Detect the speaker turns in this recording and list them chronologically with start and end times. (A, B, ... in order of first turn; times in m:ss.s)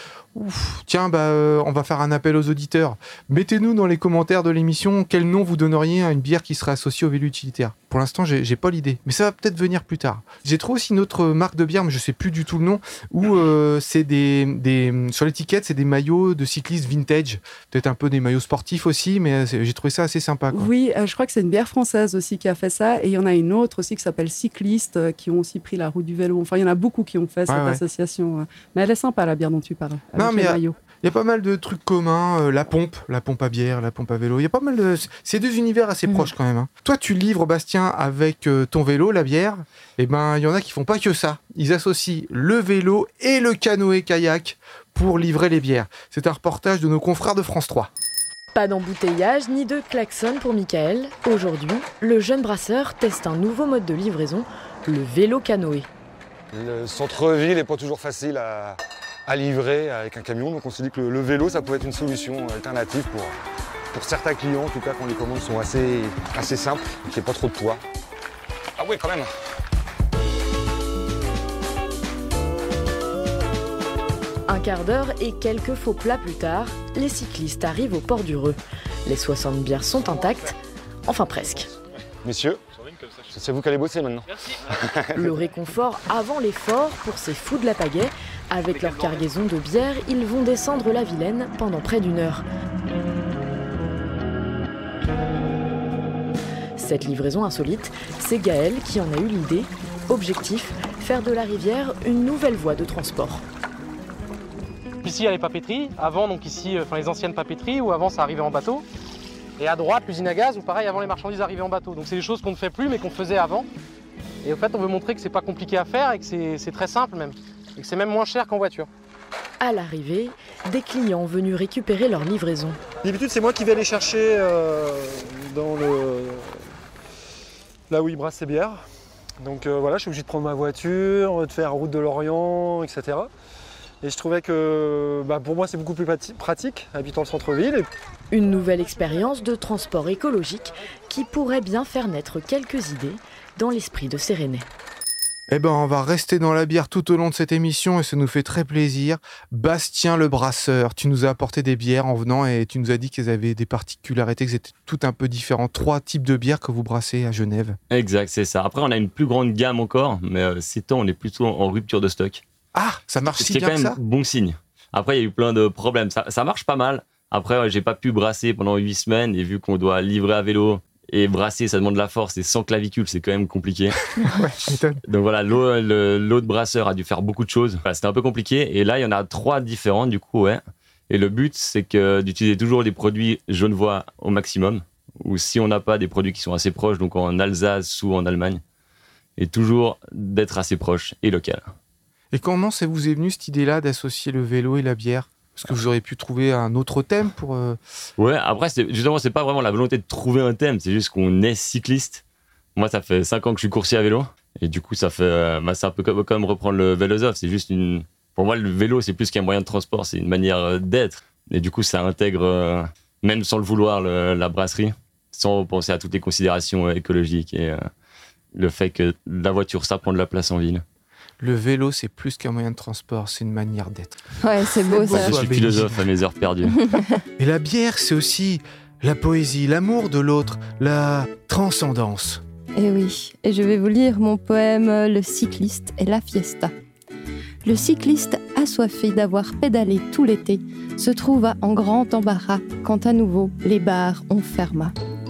0:00.3-0:20.7 A
0:20.5-0:30.7 B
0:27.5-0:27.8 A
0:30.2-0:47.9 A
0:48.5-0:55.9 C
0:56.5-1:03.3 D
1:03.9-1:07.8 D
1:08.8-1:09.3 D
1:14.5-1:21.7 C
1:22.2-1:22.6 D
1:23.2-1:25.3 D
1:25.2-1:32.4 C
1:36.8-1:43.4 C
1:45.0-1:48.8 E
1:49.6-1:53.7 E
1:54.4-1:58.9 E
1:59.6-2:02.8 C
2:03.0-2:06.7 F
2:07.9-2:08.8 F
2:09.4-2:13.3 F
2:14.0-2:17.9 F
2:18.3-2:24.7 C
2:25.5-2:37.8 A
2:37.9-2:42.4 G
2:42.7-2:44.0 A
2:43.4-2:54.0 G
2:54.2-2:55.0 A
2:55.1-3:08.6 G
3:09.4-3:11.7 G
3:12.3-3:17.8 A
3:18.2-3:22.2 G
3:22.8-3:37.9 G
3:38.5-3:40.8 G
3:41.4-3:44.1 A
3:44.4-3:45.4 H
3:44.6-3:46.0 A
3:45.1-3:46.8 G
3:46.8-3:47.1 H
3:47.4-3:52.4 A
3:52.8-3:56.7 H
3:57.6-4:04.9 H